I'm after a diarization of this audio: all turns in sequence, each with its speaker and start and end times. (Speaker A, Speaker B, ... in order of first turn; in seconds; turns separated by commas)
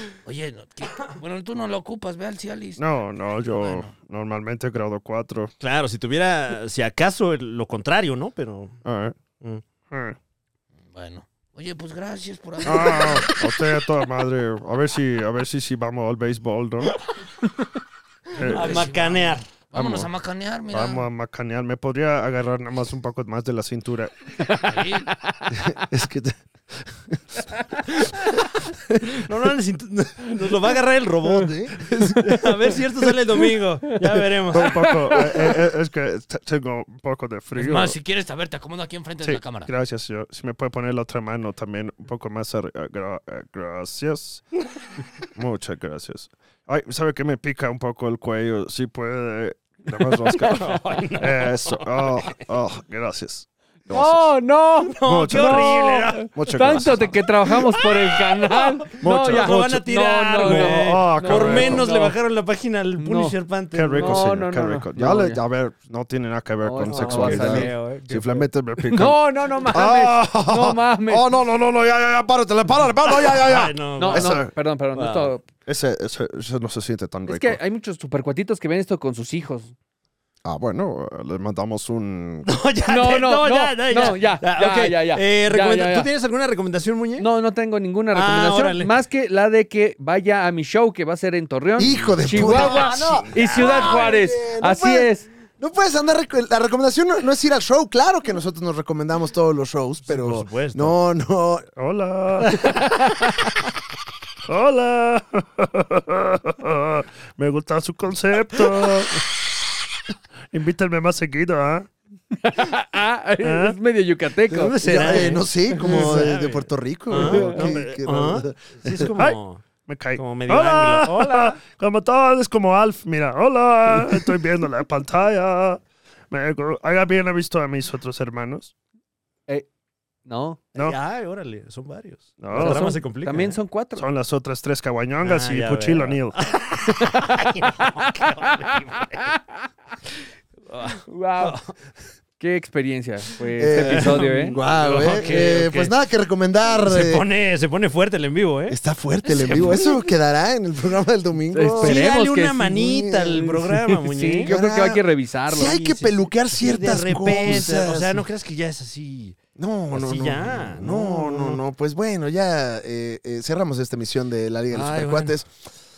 Speaker A: 0.2-2.8, Speaker B: 2.8-5.5, Speaker A: 3.4-3.9, Speaker C: 5.6-8.8, Speaker B: 8.8-9.2, Speaker B: 9.9-10.2, Speaker A: 10.9-13.4, Speaker B: 12.6-17.0, Speaker B: 18.3-18.9, Speaker A: 18.4-21.1, Speaker C: 18.4-19.9, Speaker B: 19.8-20.1, Speaker B: 20.7-24.1, Speaker D: 24.5-24.7, Speaker A: 24.6-25.1, Speaker E: 25.5-27.2, Speaker C: 29.1-34.7, Speaker E: 31.3-32.4, Speaker B: 34.5-38.0, Speaker D: 34.5-35.5, Speaker A: 37.5-39.7, Speaker B: 39.2-44.4, Speaker B: 45.3-54.2, Speaker C: 50.3-52.4, Speaker D: 53.9-62.1, Speaker C: 54.9-56.1, Speaker B: 55.0-57.8, Speaker E: 56.4-56.8, Speaker B: 58.9-59.8, Speaker C: 59.1-64.3, Speaker B: 60.4-61.9, Speaker D: 63.0-63.3, Speaker B: 63.7-74.4, Speaker D: 64.0-65.4, Speaker D: 66.6-68.0, Speaker C: 66.8-68.4, Speaker D: 68.9-71.3, Speaker E: 72.6-74.5, Speaker C: 73.4-74.3, Speaker D: 74.0-75.5, Speaker C: 74.9-75.3, Speaker B: 75.7-77.5, Speaker E: 77.2-77.5, Speaker D: 77.2-79.7, Speaker B: 80.6-82.5, Speaker C: 82.4-87.3, Speaker D: 82.9-86.1, Speaker D: 87.2-95.3, Speaker C: 88.1-88.9, Speaker E: 91.8-101.7, Speaker C: 91.8-94.1, Speaker C: 100.1-101.0, Speaker B: 101.8-102.7, Speaker D: 102.6-103.1, Speaker B: 104.5-109.2, Speaker B: 110.5-111.9, Speaker D: 112.3-116.2, Speaker B: 113.4-113.8, Speaker C: 114.5-119.6, Speaker E: 114.8-119.1, Speaker D: 117.1-117.7, Speaker B: 119.1-128.7, Speaker C: 120.2-121.5, Speaker D: 130.2-130.7, Speaker C: 130.8-133.6, Speaker B: 132.4-133.0, Speaker D: 132.5-134.0, Speaker B: 133.9-136.4, Speaker C: 135.2-139.3, Speaker D: 137.0-138.3, Speaker C: 140.7-141.7, Speaker D: 141.1-141.6, Speaker D: 142.4-144.6, Speaker E: 143.6-147.2, Speaker C: 143.8-145.9, Speaker C: 146.7-148.8, Speaker E: 148.7-153.8, Speaker C: 149.3-149.9, Speaker D: 151.5-152.7, Speaker C: 151.8-154.5, Speaker D: 154.0-156.1, Speaker E: 154.4-158.2, Speaker C: 156.5-159.4, Speaker E: 159.6-165.5, Speaker C: 159.9-161.6, Speaker C: 164.7-165.3